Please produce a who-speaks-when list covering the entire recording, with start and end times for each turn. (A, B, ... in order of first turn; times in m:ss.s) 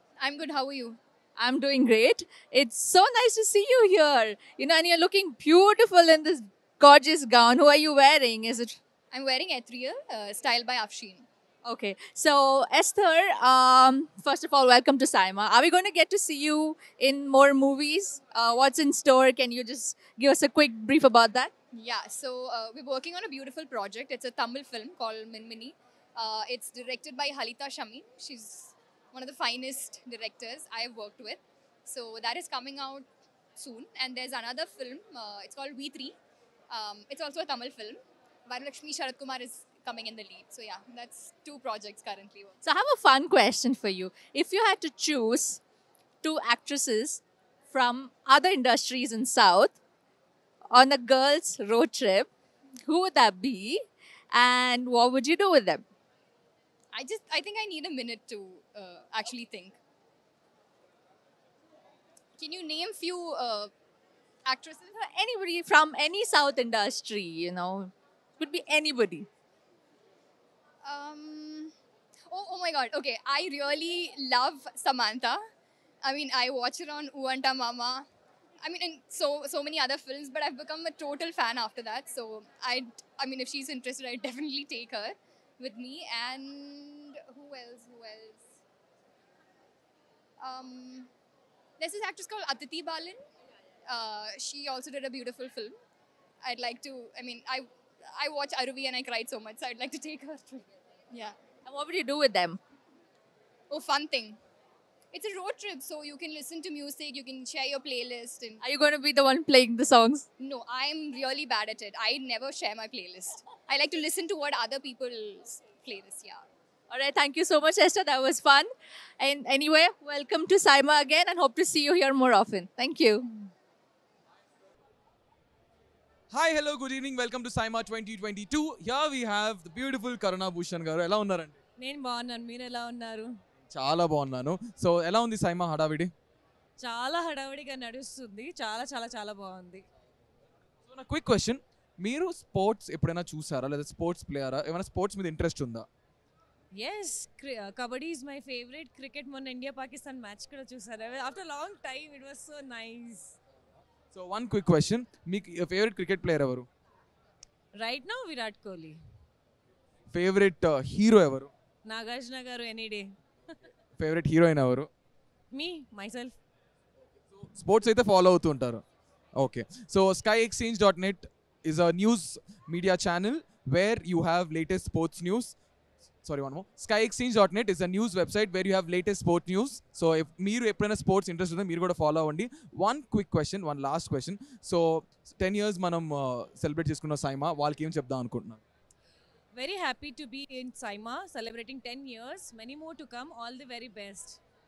0:00.2-0:01.0 A
0:01.4-0:08.8 B
0:09.1-0:11.3 A
0:11.6-0:21.5 B
0:21.7-0:36.1 A
0:36.7-0:42.6 A
0:42.6-0:45.6 B
0:46.2-0:49.8 B
0:50.7-0:52.3 B
0:52.8-0:55.8 B
0:56.9-0:59.8 A
1:02.4-1:03.7 A
1:04.4-1:04.9 A
1:04.9-1:09.3 B
1:10.8-1:11.7 A
1:12.3-1:15.4 A
1:16.0-1:18.0 A
1:18.6-1:28.4 A
1:30.4-1:31.1 A
1:31.8-1:33.2 A
1:33.9-1:35.7 A
1:36.4-1:41.4 A
1:41.6-1:42.6 B
1:43.7-1:44.4 A
1:45.1-1:48.6 A
1:48.6-1:50.2 B
1:50.4-1:56.4 A
1:56.9-1:58.7 B
1:59.2-2:03.3 B
2:06.3-2:11.6 C
2:11.8-2:13.3 D
2:13.7-2:16.1 C
2:16.8-2:19.8 D
2:20.8-2:25.8 C
2:26.8-2:33.4 D
2:34.1-2:36.7 C
2:37.8-2:39.0 D
2:40.1-2:41.5 C
2:41.8-2:43.1 D
2:44.0-2:44.9 C
2:45.5-2:46.4 D
2:47.4-2:48.8 C
2:49.4-2:55.5 C
2:56.2-3:08.6 C
3:09.5-3:14.4 D